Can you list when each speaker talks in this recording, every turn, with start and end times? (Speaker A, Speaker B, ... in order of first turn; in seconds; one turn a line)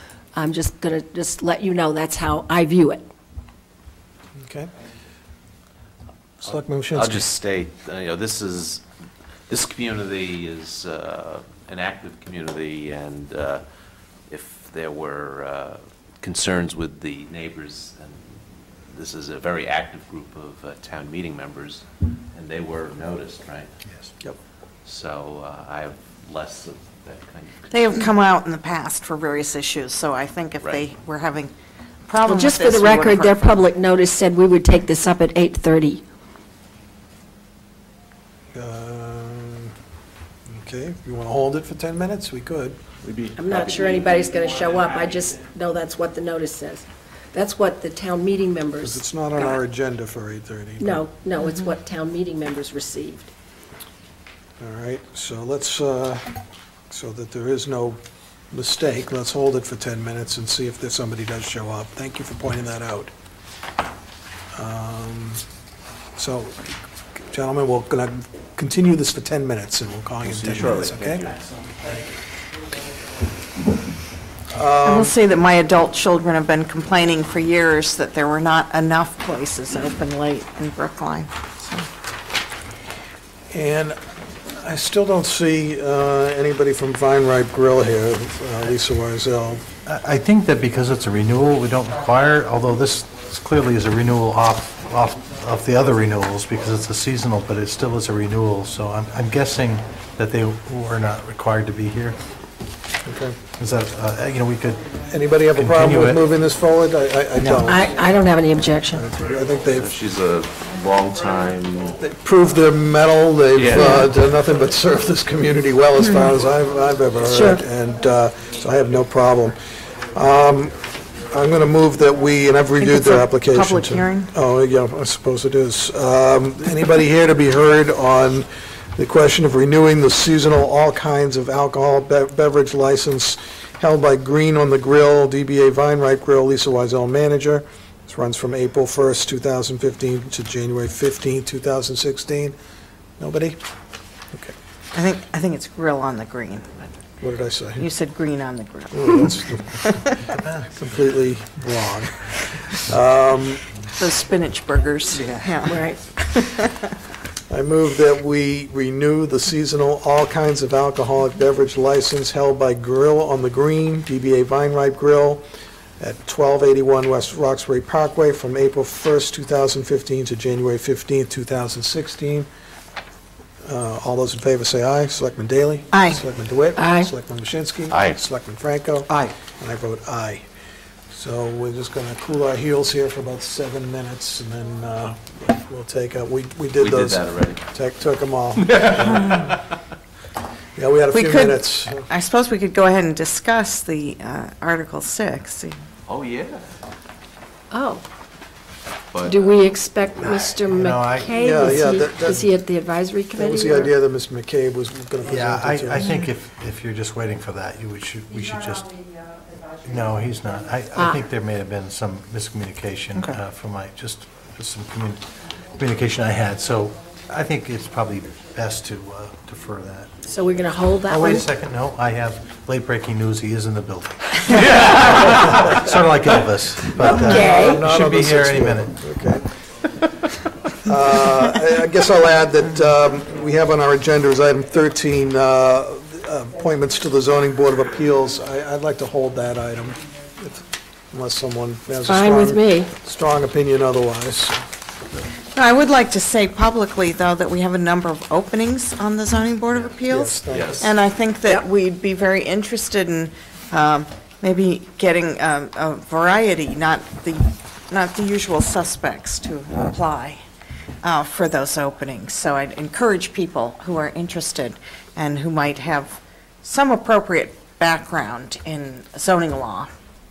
Speaker A: 0.3-3.0
Speaker B: 4.4-4.7
Speaker B: 6.4-7.3
Speaker C: 6.9-8.8
Speaker C: 9.5-13.6
Speaker C: 14.3-18.3
Speaker C: 18.9-23.7
Speaker C: 24.8-28.0
Speaker D: 27.7-31.5
Speaker C: 30.6-30.9
Speaker D: 32.1-33.5
Speaker A: 32.2-36.0
Speaker B: 38.5-39.7
Speaker B: 40.5-42.8
Speaker A: 43.4-49.0
Speaker B: 48.8-51.0
Speaker A: 50.8-53.3
Speaker B: 54.6-56.3
Speaker B: 56.9-58.0
Speaker B: 58.5-63.1
Speaker B: 64.5-65.4
Speaker B: 66.2-66.7
Speaker B: 67.3-71.3
Speaker C: 70.2-71.6
Speaker B: 74.5-75.1
Speaker D: 74.8-81.9
Speaker B: 83.5-84.0
Speaker B: 84.5-89.7
Speaker E: 89.8-102.2
Speaker B: 103.0-103.4
Speaker E: 103.5-105.0
Speaker B: 105.1-107.9
Speaker E: 105.5-106.2
Speaker A: 107.6-109.1
Speaker B: 108.9-109.9
Speaker C: 109.7-112.0
Speaker B: 112.0-119.6
Speaker C: 113.5-114.1
Speaker D: 116.0-116.3
Speaker A: 117.2-117.6
Speaker B: 120.1-142.5
Speaker D: 122.8-124.3
Speaker B: 143.2-143.6
Speaker D: 144.9-146.7
Speaker B: 147.2-147.9
Speaker D: 147.8-150.2
Speaker B: 148.9-149.9
Speaker B: 150.7-153.7
Speaker D: 153.9-156.8
Speaker A: 155.6-156.0
Speaker B: 157.5-165.4
Speaker B: 166.0-172.5
Speaker B: 173.6-180.4
Speaker D: 175.9-176.2
Speaker A: 176.8-177.1
Speaker C: 177.9-178.2
Speaker B: 181.1-189.4
Speaker C: 186.8-187.6
Speaker B: 190.8-192.1
Speaker D: 191.1-195.7
Speaker C: 196.1-196.7
Speaker A: 197.7-198.0
Speaker C: 199.1-199.6
Speaker A: 199.2-203.9
Speaker E: 200.7-201.8
Speaker B: 201.3-202.5
Speaker B: 203.3-206.1
Speaker E: 205.2-209.1
Speaker E: 209.8-220.1
Speaker A: 210.9-211.2
Speaker A: 220.2-221.5
Speaker E: 221.1-228.9
Speaker C: 224.7-225.4
Speaker B: 226.9-229.4
Speaker A: 227.2-227.8
Speaker B: 230.8-244.6
Speaker A: 242.1-242.9
Speaker D: 245.5-260.4
Speaker B: 250.1-250.9
Speaker C: 250.5-250.9
Speaker D: 261.0-269.9